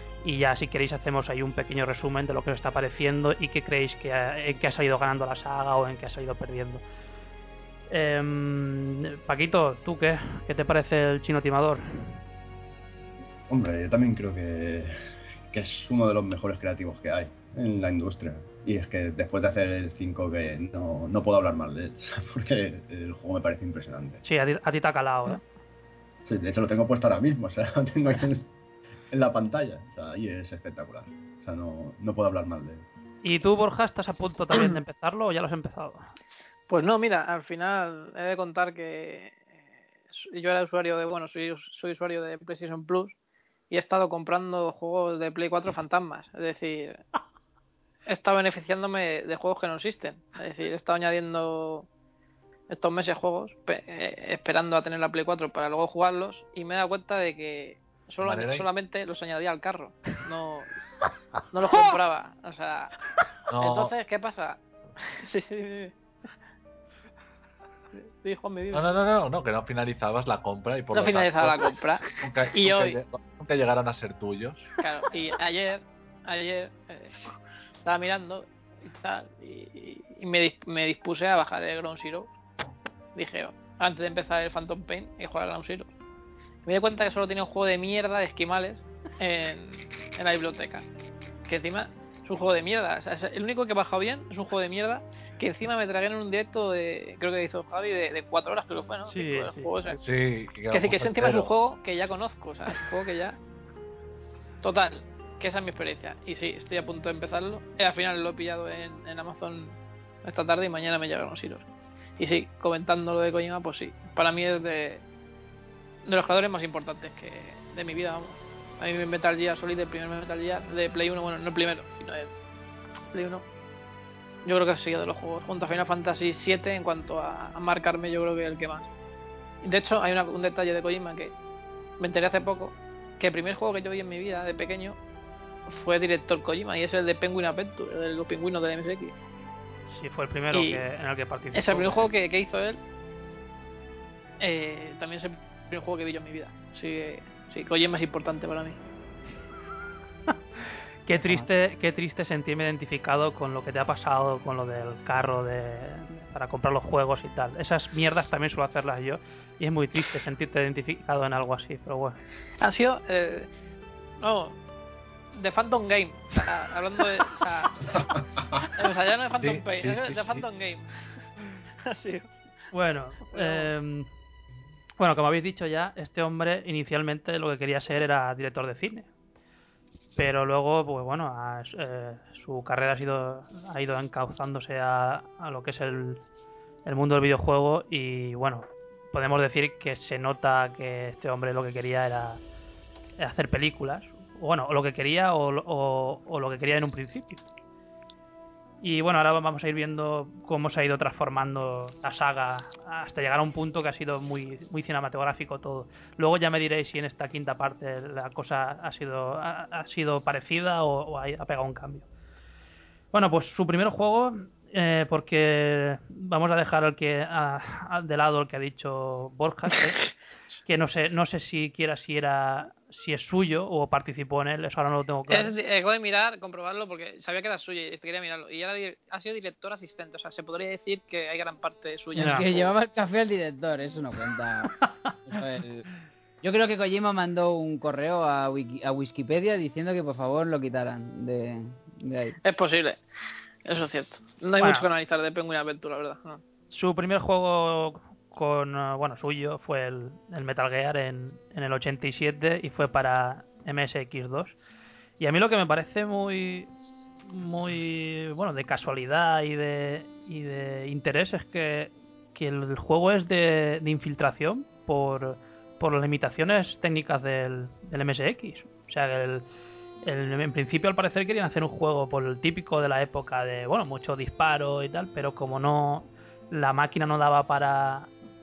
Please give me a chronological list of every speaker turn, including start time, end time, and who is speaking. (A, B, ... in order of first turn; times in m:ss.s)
0:00.2-0:06.8 A
0:07.9-0:11.8 A
0:13.5-0:24.2 B
0:24.2-0:25.4 A
0:26.2-0:28.5 B
0:29.1-0:32.8 B
0:33.2-0:36.0 A
0:36.7-0:43.1 C
0:43.7-0:47.0 C
0:48.1-0:51.9 C
0:52.7-1:00.7 C
0:58.2-0:58.7 D
1:01.5-1:02.9 C
1:03.5-1:03.9 D
1:03.5-1:04.6 C
1:05.1-1:05.9 C
1:07.9-1:08.9 C
1:08.7-1:14.7 D
1:10.9-1:13.0 C
1:14.8-1:17.1 C
1:17.8-1:22.3 C
1:23.2-1:25.9 C
1:26.7-1:30.9 C
1:31.5-1:40.0 C
1:39.1-1:39.7 A
1:40.0-1:41.5 D
1:40.7-1:43.4 C
1:44.6-1:51.6 C
1:52.2-1:55.0 C
1:56.0-2:02.3 C
2:03.1-2:03.4 C
2:04.4-2:08.9 C
2:09.6-2:11.3 C
2:12.0-2:15.0 C
2:15.7-2:19.1 C
2:19.9-2:22.1 A
2:20.5-2:20.8 C
2:21.5-2:22.8 C
2:24.4-2:28.8 C
2:31.1-2:42.2 A
2:31.2-2:31.5 E
2:42.6-2:43.5 C
2:44.2-2:44.6 C
2:45.3-2:47.8 C
2:48.8-2:50.9 C
2:49.4-2:50.4 D
2:51.9-2:52.3 C
2:52.7-2:54.1 A
2:53.3-2:53.7 C
2:55.0-2:59.1 A
3:00.2-3:06.2 A
3:06.9-3:12.4 A
3:13.2-3:17.4 A
3:18.8-3:32.0 A
3:33.1-3:40.0 A
3:40.7-3:45.6 A
3:45.3-3:52.7 C
3:52.2-3:55.8 E
3:52.2-3:52.5 A
3:56.4-4:02.4 E
4:02.4-4:03.0 C
4:03.7-4:06.4 C
4:04.6-4:04.9 A
4:06.7-4:14.6 A
4:15.2-4:16.7 A
4:17.3-4:29.4 A
4:30.0-4:38.1 A